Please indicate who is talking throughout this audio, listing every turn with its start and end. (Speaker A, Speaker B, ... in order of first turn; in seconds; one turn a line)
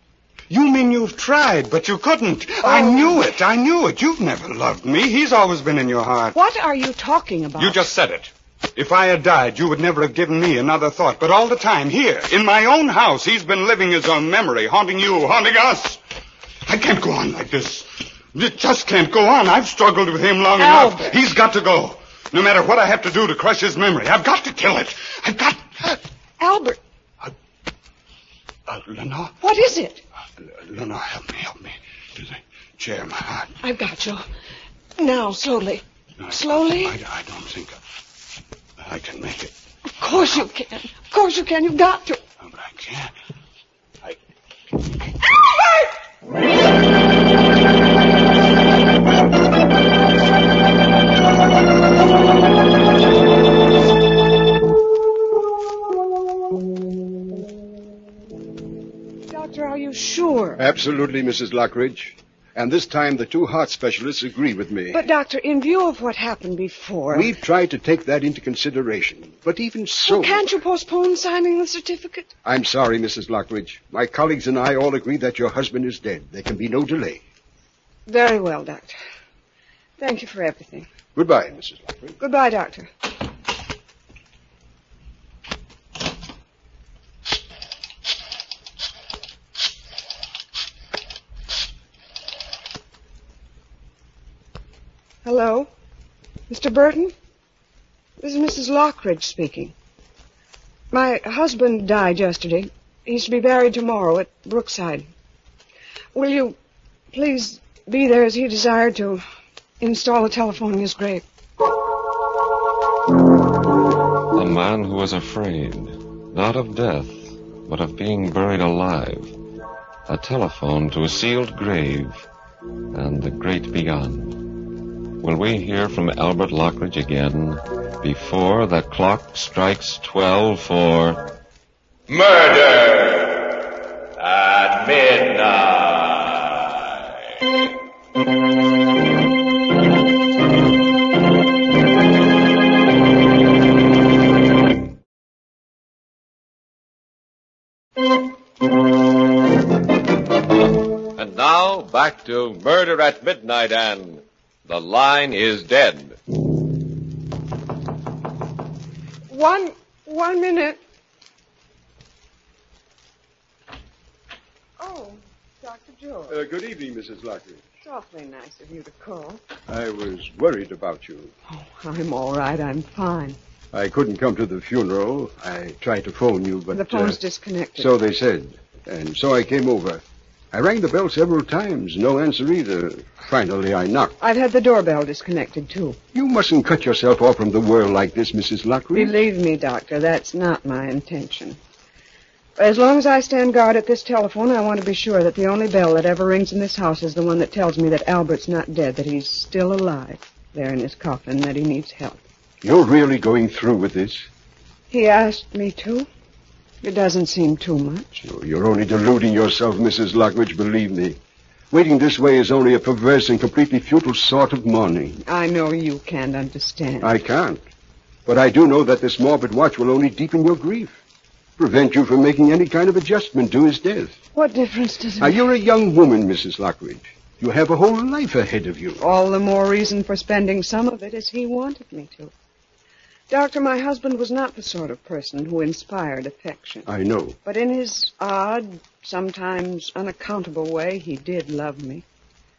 Speaker A: 0.5-6.4
Speaker B: 2.6-3.2
Speaker B: 6.3-7.8
Speaker A: 7.6-16.0
Speaker A: 16.6-26.0
Speaker B: 20.6-21.2
Speaker B: 26.4-26.8
Speaker A: 28.7-29.4
Speaker B: 29.4-30.0
Speaker A: 30.4-33.5
Speaker B: 33.6-34.2
Speaker B: 35.0-37.0
Speaker A: 36.2-37.8
Speaker A: 38.8-39.5
Speaker B: 39.9-42.2
Speaker A: 42.4-43.1
Speaker B: 59.3-60.6
Speaker C: 60.6-65.0
Speaker B: 64.9-67.3
Speaker C: 67.1-70.5
Speaker B: 70.0-72.3
Speaker C: 72.4-77.2
Speaker B: 78.1-79.0
Speaker B: 80.0-80.9
Speaker C: 81.1-82.1
Speaker B: 82.2-82.9
Speaker B: 95.2-95.7
Speaker B: 96.5-97.1
Speaker B: 98.2-99.7
Speaker B: 100.9-105.1
Speaker B: 106.1-106.5
Speaker B: 107.1-109.2
Speaker B: 109.8-111.2
Speaker D: 114.3-119.3
Speaker D: 120.1-122.3
Speaker D: 122.9-124.5
Speaker D: 125.2-131.2
Speaker D: 132.1-133.6
Speaker D: 134.2-136.9
Speaker D: 151.1-156.2
Speaker B: 159.3-160.8
Speaker B: 164.8-166.4
Speaker C: 166.3-167.6
Speaker B: 167.8-169.4
Speaker C: 169.7-171.3
Speaker B: 171.5-173.4
Speaker C: 173.7-177.2
Speaker B: 176.7-177.9
Speaker C: 177.8-184.2
Speaker B: 184.2-186.0
Speaker C: 186.1-189.1
Speaker B: 188.9-191.6
Speaker B: 192.6-202.2
Speaker C: 202.6-204.3
Speaker B: 204.9-206.1
Speaker B: 206.8-208.2
Speaker C: 208.2-211.2
Speaker C: 211.7-215.2
Speaker B: 215.2-217.1
Speaker C: 217.0-217.6
Speaker C: 218.2-221.0
Speaker C: 221.6-224.1
Speaker B: 224.3-225.4
Speaker C: 225.2-229.0
Speaker B: 229.0-232.3
Speaker B: 233.3-236.9
Speaker C: 236.8-237.4
Speaker B: 237.4-242.0